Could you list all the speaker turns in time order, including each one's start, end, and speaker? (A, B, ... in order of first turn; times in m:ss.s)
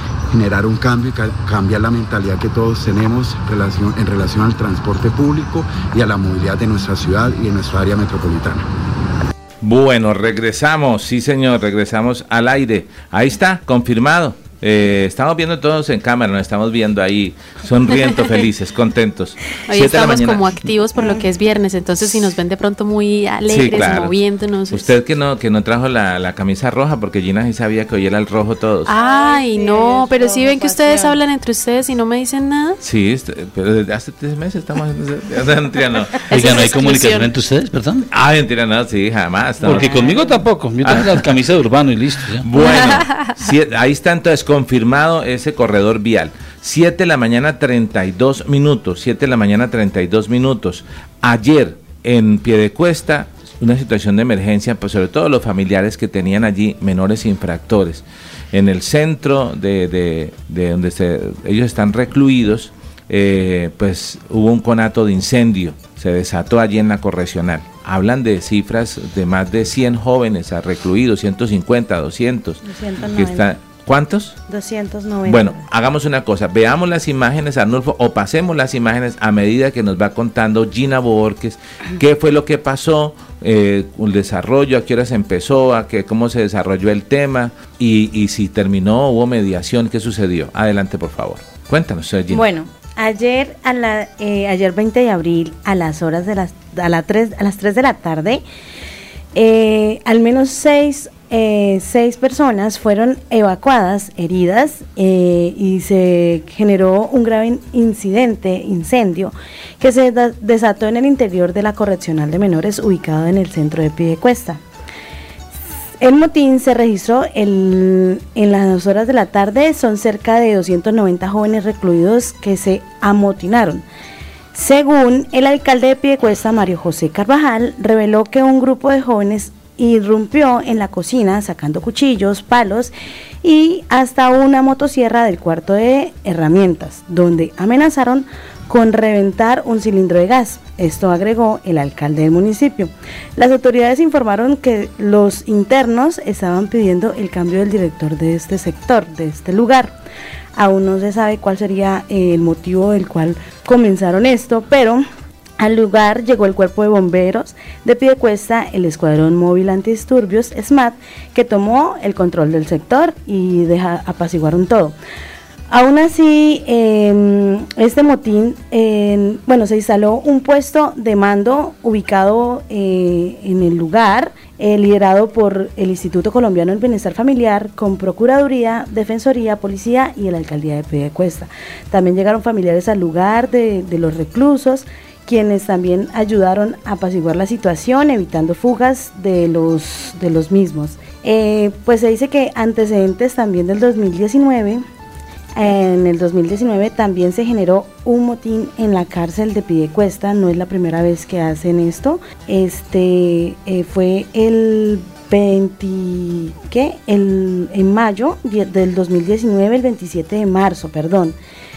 0:00.3-0:08.6 A
0:09.6-0:20.6 B
0:19.7-0:24.9 C
0:21.0-0:21.2 D
0:23.5-0:24.2 B
0:24.7-0:28.9 B
0:28.8-0:32.8 C
0:29.0-0:31.2 D
0:32.8-0:36.3 B
0:36.2-0:37.3 C
0:36.3-0:38.1 E
0:38.1-0:40.1 B
0:39.6-0:42.5 E
0:39.7-0:40.4 D
0:40.8-0:41.3 B
0:42.4-1:12.6 B
0:42.6-0:43.3 C
1:12.6-1:13.5 D
1:13.1-1:14.4 B
1:14.5-1:15.6 D
1:15.2-1:32.4 B
1:32.3-1:38.4 D
1:39.3-1:54.6 D
1:56.0-2:03.8 D
2:04.5-2:30.0 D
2:30.6-2:35.0 D
2:35.6-2:44.9 D
2:45.7-3:14.8 D
3:15.6-3:31.4 D